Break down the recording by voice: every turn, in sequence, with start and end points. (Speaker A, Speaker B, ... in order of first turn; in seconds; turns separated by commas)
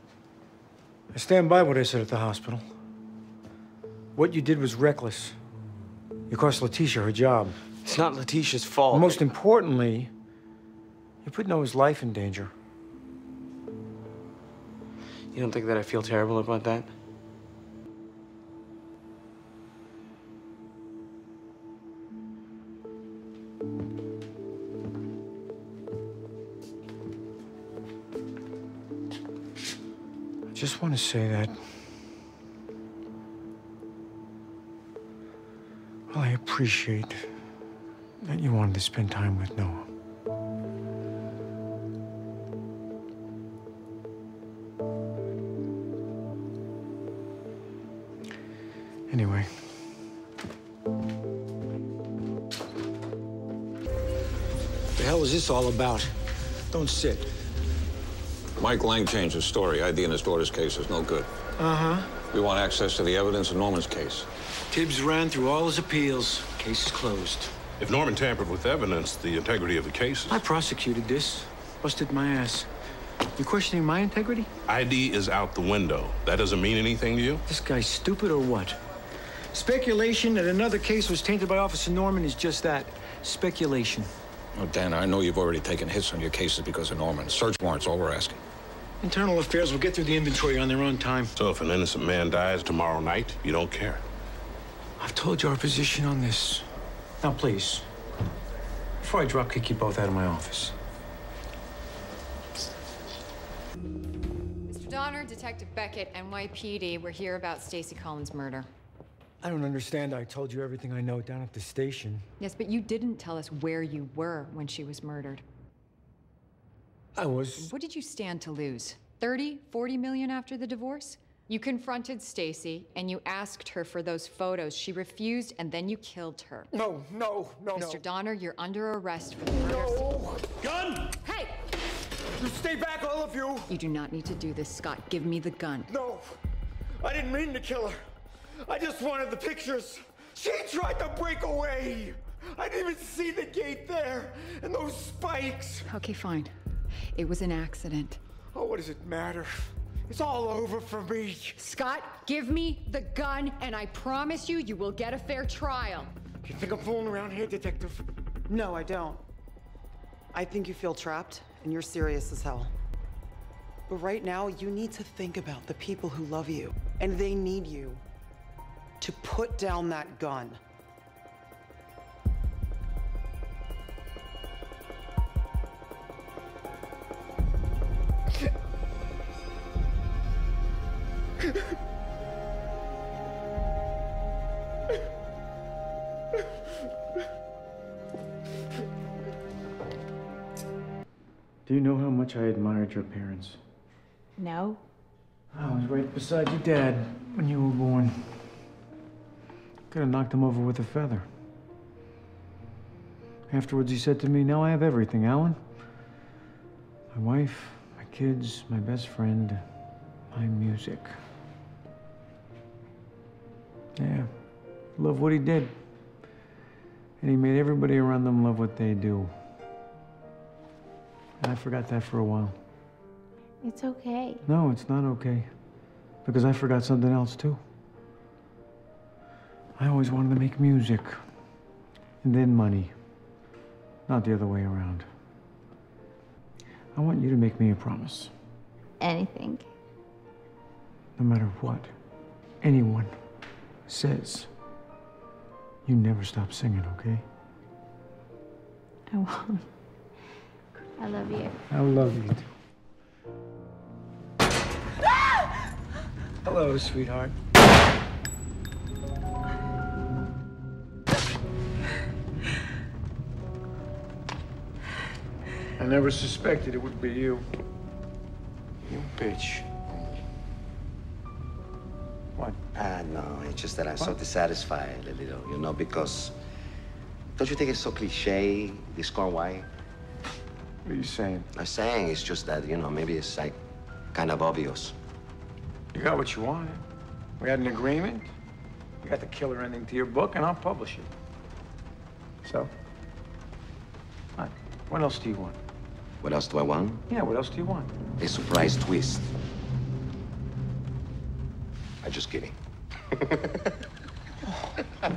Speaker A: 1.1-2.7, Speaker A: 4.1-5.3, Speaker A: 6.3-7.6, Speaker B: 7.8-9.3, Speaker A: 8.9-10.1, Speaker A: 11.2-12.5, Speaker B: 15.3-16.9, Speaker A: 30.5-31.6, Speaker A: 36.1-37.2, Speaker A: 38.2-39.9, Speaker A: 49.1-49.5, Speaker A: 54.9-56.1, Speaker A: 56.7-57.3, Speaker C: 58.6-61.3, Speaker A: 61.6-62.1, Speaker C: 62.3-64.3, Speaker A: 64.7-67.5, Speaker D: 67.8-70.4, Speaker A: 70.3-72.7, Speaker A: 73.4-74.5, Speaker D: 74.7-77.4, Speaker A: 77.5-78.8, Speaker A: 79.5-84.1, Speaker C: 84.5-88.4, Speaker A: 89.0-91.3, Speaker D: 91.3-94.0, Speaker A: 95.0-96.7, Speaker A: 97.2-97.8, Speaker A: 99.0-100.7, Speaker E: 104.7-108.7, Speaker A: 109.4-112.3, Speaker E: 112.4-115.4, Speaker A: 117.2-117.7, Speaker E: 117.6-126.7, Speaker A: 126.7-128.0, Speaker E: 127.7-130.1, Speaker A: 129.6-131.1, Speaker E: 131.2-131.5, Speaker A: 132.4-133.8, Speaker E: 133.7-135.9, Speaker A: 135.9-136.3, Speaker A: 137.0-138.0, Speaker A: 138.6-145.9, Speaker E: 145.9-146.5, Speaker E: 147.1-148.2, Speaker A: 148.5-151.6, Speaker E: 151.6-156.1, Speaker A: 156.4-158.0, Speaker F: 158.5-159.2, Speaker F: 160.3-162.7, Speaker F: 163.9-168.0, Speaker F: 169.0-170.6, Speaker A: 191.7-193.6, Speaker G: 194.4-194.8, Speaker A: 195.5-198.6, Speaker A: 199.9-201.2, Speaker A: 203.5-205.6, Speaker A: 207.1-209.6, Speaker A: 210.3-211.2, Speaker A: 213.9-214.3, Speaker A: 215.0-215.8, Speaker A: 217.2-219.3, Speaker A: 221.4-222.5, Speaker G: 223.6-224.4, Speaker A: 224.4-225.5, Speaker A: 226.2-227.6, Speaker A: 229.8-231.2, Speaker A: 232.2-232.9, Speaker A: 234.1-235.1, Speaker A: 236.9-238.3, Speaker G: 239.0-239.7, Speaker A: 241.2-241.9, Speaker A: 242.6-243.1, Speaker A: 243.9-244.5, Speaker A: 245.8-247.2, Speaker G: 249.1-249.7, Speaker G: 251.0-251.5, Speaker A: 251.7-252.5, Speaker A: 256.4-257.3, Speaker A: 265.8-267.4, Speaker A: 268.9-269.7, Speaker A: 272.4-272.7, Speaker H: 272.7-276.3, Speaker H: 277.4-279.7, Speaker A: 280.8-281.5, Speaker H: 281.6-283.6, Speaker H: 284.1-284.9, Speaker A: 285.9-286.8, Speaker A: 287.4-288.3, Speaker A: 289.0-291.1, Speaker A: 292.4-292.7, Speaker A: 294.4-295.6, Speaker H: 296.2-297.0, Speaker A: 297.1-297.9, Speaker H: 298.2-299.3, Speaker H: 302.0-302.6, Speaker H: 303.1-303.7